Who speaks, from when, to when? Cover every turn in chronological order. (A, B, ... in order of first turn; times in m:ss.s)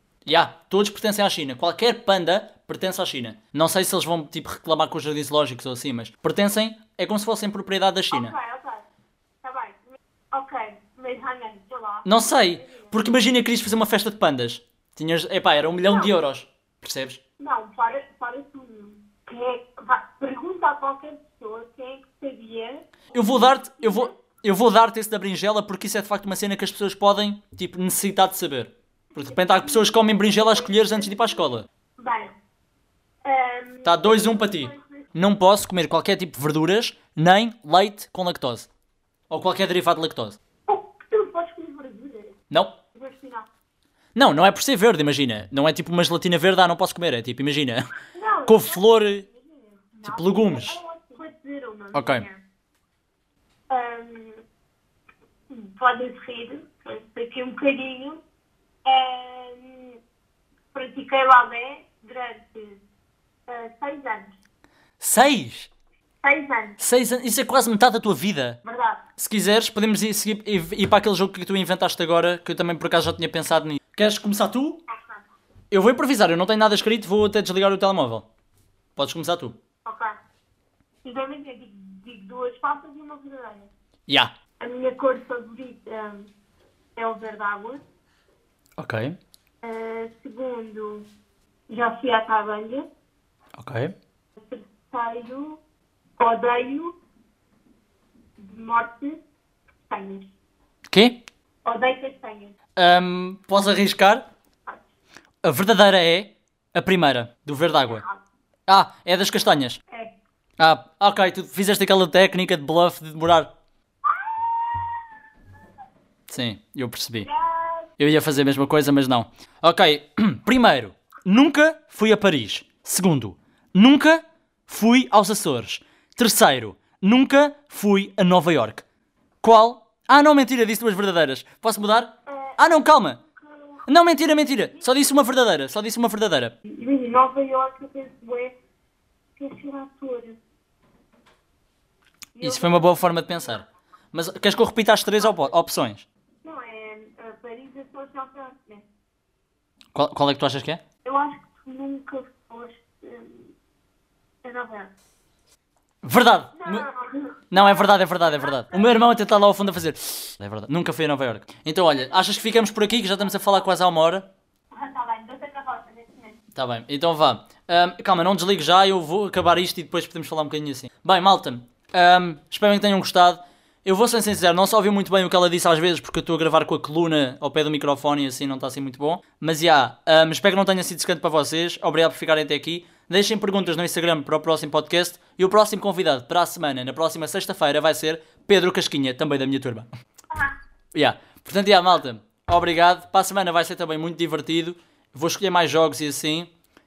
0:00.3-0:08.4 A
0:08.1-0:08.9 B
0:09.4-0:13.0 B
0:12.0-0:17.2 A
0:15.9-0:16.1 B
0:17.4-0:24.2 B
0:23.1-0:31.7 A
0:29.2-0:32.3 B
0:33.2-0:35.1 B
0:33.8-0:38.7 A
0:39.3-0:40.4 A
0:40.7-0:42.4 B
0:42.9-0:43.5 B
0:44.2-0:47.9 A
0:48.1-0:52.4 B
0:48.5-0:49.2 A
0:50.0-0:50.8 A
0:51.9-0:52.2 A
0:53.7-0:54.4 B
0:55.5-0:58.2 B
0:58.8-1:00.0 B
1:00.7-1:02.8 B
1:03.5-1:04.4 B
1:05.0-1:05.7 A
1:06.2-1:06.8 B
1:06.8-1:08.6 A
1:08.6-1:09.0 B
1:09.2-1:14.8 A
1:14.9-1:15.2 B
1:15.7-1:18.3 A
1:19.0-1:19.6 A
1:19.8-1:20.2 B
1:21.0-1:23.7 B
1:24.6-1:26.3 B
1:27.0-1:27.8 B
1:28.8-1:29.2 A
1:29.6-1:31.1 B
1:31.7-1:32.9 B
1:33.6-1:33.9 A
1:34.4-1:35.6 B
1:36.2-1:37.0 B
1:38.4-1:39.2 B
1:39.9-1:40.3 B
1:40.9-1:41.2 A
1:41.6-1:42.6 B
1:42.8-1:44.2 A
1:45.4-1:48.0 A
1:47.9-1:48.2 B
1:48.7-1:49.8 A
1:50.6-1:53.5 A
1:54.0-1:55.1 B
1:56.3-1:57.3 A
1:57.2-1:57.9 B
1:58.0-2:08.8 A
2:09.4-2:13.2 A
2:12.3-2:12.6 B
2:13.4-2:13.8 B
2:13.9-2:16.6 A
2:14.7-2:15.0 B
2:16.6-2:18.6 B
2:19.4-2:20.4 B
2:22.4-2:23.0 B
2:22.4-2:26.0 A
2:25.2-2:25.5 B
2:26.4-2:28.9 B
2:29.9-2:30.8 A
2:31.0-2:33.5 B
2:34.4-2:34.9 B
2:36.0-2:36.9 A
2:36.6-2:38.9 B
2:37.5-2:44.3 A
2:44.7-2:46.4 B
2:46.6-3:09.9 A
3:10.3-3:10.6 B
3:10.9-3:16.5 A